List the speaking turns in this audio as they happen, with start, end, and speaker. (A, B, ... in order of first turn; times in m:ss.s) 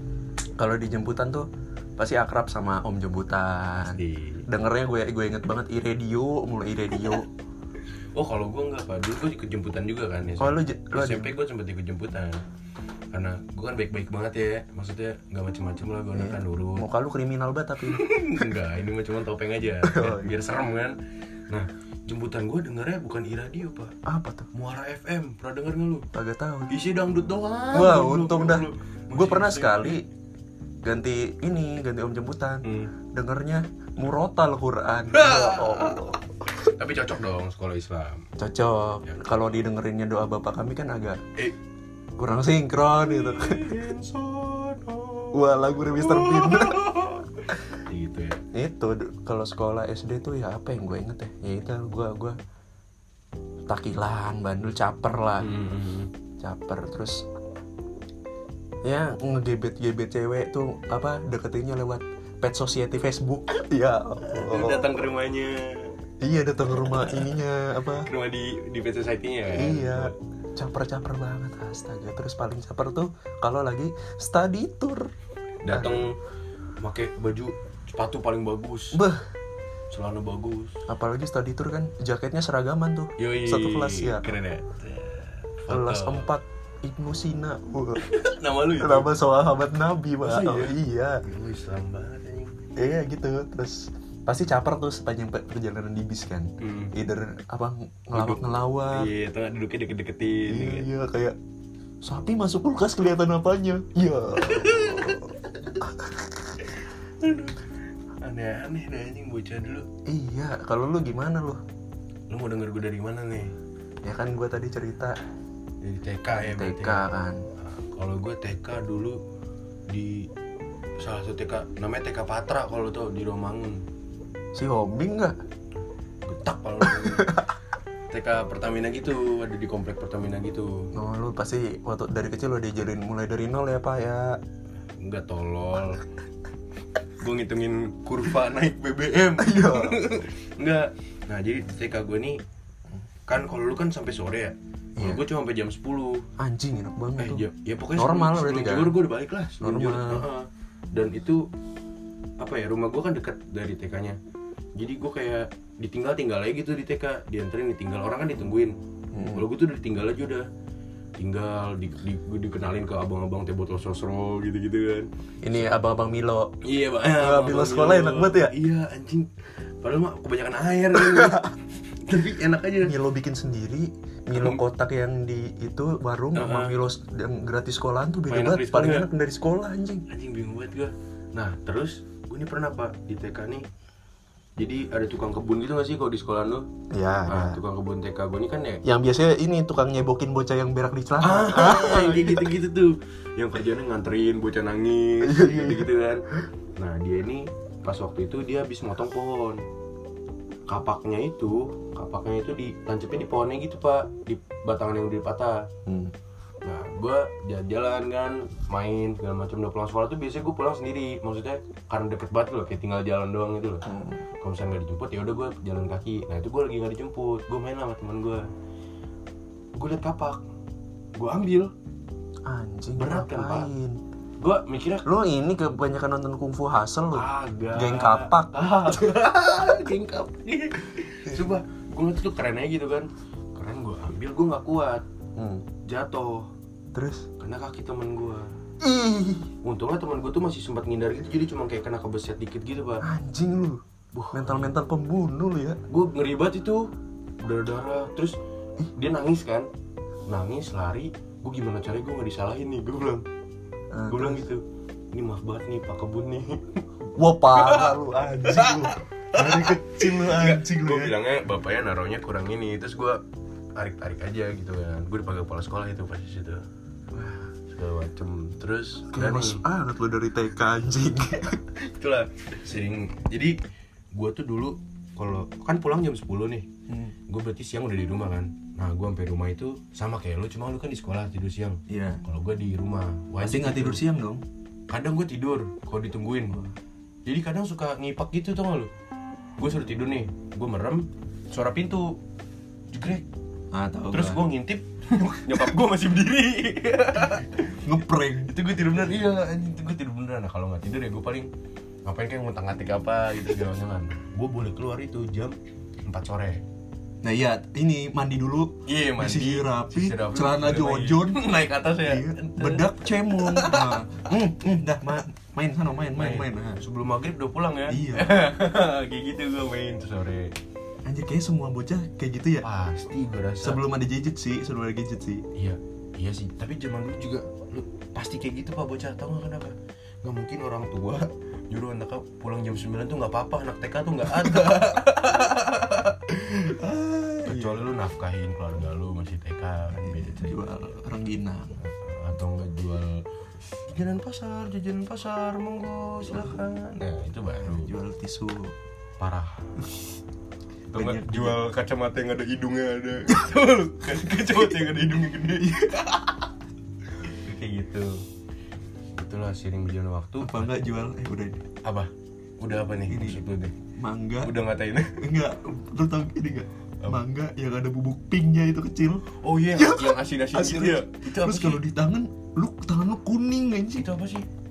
0:00.6-0:07.3 A
0:03.8-0:04.5 B
0:08.2-0:12.4 B
0:10.4-0:11.3 A
0:13.1-0:16.9 B
0:16.2-0:18.5 A
0:17.8-0:21.0 B
0:19.8-0:20.3 A
0:21.5-0:24.0 B
0:24.0-0:24.5 A
0:24.5-0:26.1 B
0:26.1-0:26.7 A
0:26.7-0:30.0 B
0:27.7-0:30.1 A
0:30.8-0:36.3 A
0:32.6-0:32.9 B
0:35.1-0:38.3 B
0:38.4-0:41.2 A
0:39.0-0:39.6 B
0:42.2-0:43.8 A
0:43.0-0:48.4 B
0:45.3-0:47.1 A
0:48.5-0:52.4 A
0:53.7-0:55.6 A
0:55.4-0:56.1 B
0:56.4-0:57.3 A
0:58.8-1:04.9 A
1:04.3-1:06.0 B
1:06.2-1:08.1 A
1:06.7-1:07.3 B
1:08.0-1:10.2 B
1:09.5-1:15.1 A
1:15.6-1:16.2 B
1:15.7-1:16.1 A
1:16.8-1:19.0 B
1:18.9-1:19.3 A
1:19.9-1:20.8 B
1:20.9-1:24.3 A
1:23.2-1:26.3 B
1:25.7-1:28.0 A
1:28.0-1:29.1 B
1:28.8-1:31.2 A
1:30.2-1:32.5 B
1:32.8-1:39.1 A
1:36.6-1:36.9 B
1:38.1-1:40.9 B
1:40.5-1:41.4 A
1:42.0-1:46.2 A
1:44.4-1:45.8 B
1:46.6-1:49.9 B
1:50.1-1:51.6 A
1:52.3-1:53.5 B
1:54.0-1:55.2 A
1:55.8-1:57.0 B
1:56.3-1:57.4 A
1:57.6-1:59.2 B
1:59.9-2:00.3 B
2:01.0-2:03.8 B
2:04.6-2:05.4 A
2:06.2-2:07.4 B
2:06.8-2:07.5 A
2:08.1-2:10.9 B
2:11.0-2:14.4 A
2:15.0-2:16.0 B
2:17.2-2:22.4 B
2:19.4-2:20.1 A
2:23.3-2:26.3 B
2:25.0-2:25.2 A
2:26.4-2:29.0 A
2:27.2-2:31.5 B
2:29.6-2:30.3 A
2:32.4-2:34.2 B
2:34.8-2:40.5 B
2:39.1-2:39.5 A
2:41.2-2:45.1 B
2:45.4-2:46.5 A
2:46.6-2:49.3 B
2:47.2-2:48.5 A
2:49.8-2:53.0 B
2:51.0-2:51.5 A
2:52.8-3:00.0 A
2:54.3-2:54.6 B
2:56.4-2:56.8 B
2:58.3-2:59.1 B
3:00.1-3:03.7 B
3:04.6-3:06.7 B
3:06.9-3:07.6 A
3:07.3-3:08.8 B
3:08.8-3:12.5 A
3:11.2-3:19.6 B
3:15.2-3:16.4 A
3:20.7-3:25.7 B
3:25.9-3:26.1 A
3:26.6-3:33.9 B
3:33.8-3:34.2 A
3:34.4-3:38.5 B
3:39.7-3:40.4 B
3:41.2-3:41.7 B
3:42.4-3:44.0 A
3:43.0-3:43.7 B
3:44.4-3:45.1 B
3:45.0-3:49.1 A
3:47.1-3:55.0 B
3:55.4-3:55.6 A
3:55.8-3:56.5 B
3:56.9-3:57.3 A
3:57.4-3:58.5 B
3:58.8-3:59.5 A
3:59.6-4:03.0 B
4:03.0-4:05.8 A
4:04.1-4:04.7 B
4:05.9-4:08.4 B
4:08.9-4:09.7 B
4:10.3-4:13.2 B
4:13.9-4:14.4 A
4:14.1-4:14.6 B
4:15.1-4:16.8 B
4:17.2-4:21.2 A
4:17.5-4:23.2 B
4:23.8-4:26.7 B
4:27.1-4:27.5 A
4:27.6-4:29.6 B
4:29.1-4:31.6 A
4:31.8-4:33.6 B
4:34.1-4:36.7 B
4:36.9-4:37.2 A
4:37.3-4:44.0 B
4:41.9-4:42.2 A
4:43.4-4:44.4 A
4:44.9-4:46.6 B
4:47.3-4:48.9 B
4:49.6-4:52.2 B
4:52.9-4:53.3 B
4:53.7-4:54.5 A
4:54.1-4:57.8 B
4:57.7-4:58.6 A
4:58.5-5:01.5 B
5:02.0-5:06.6 B
5:07.2-5:16.8 A
5:08.9-5:14.0 B
5:16.2-5:20.5 B
5:17.9-5:18.3 A
5:21.0-5:22.7 A
5:22.6-5:23.8 B
5:23.6-5:25.4 A
5:25.6-5:36.2 B
5:34.4-5:35.0 A
5:36.3-5:37.8 A
5:37.4-5:40.7 B
5:40.0-5:41.8 A
5:41.8-5:43.2 B
5:43.9-5:48.0 B
5:47.6-5:48.7 A
5:49.2-5:49.7 B
5:50.9-5:56.2 B
5:50.9-5:51.6 A
5:55.7-5:56.1 A
5:57.3-5:58.2 B
5:59.2-6:00.7 B
6:00.4-6:01.6 A
6:01.8-6:03.7 B
6:03.1-6:03.4 A
6:04.0-6:04.6 A
6:04.4-6:05.2 B
6:05.2-6:14.1 A
6:09.4-6:11.8 B
6:14.0-6:14.5 B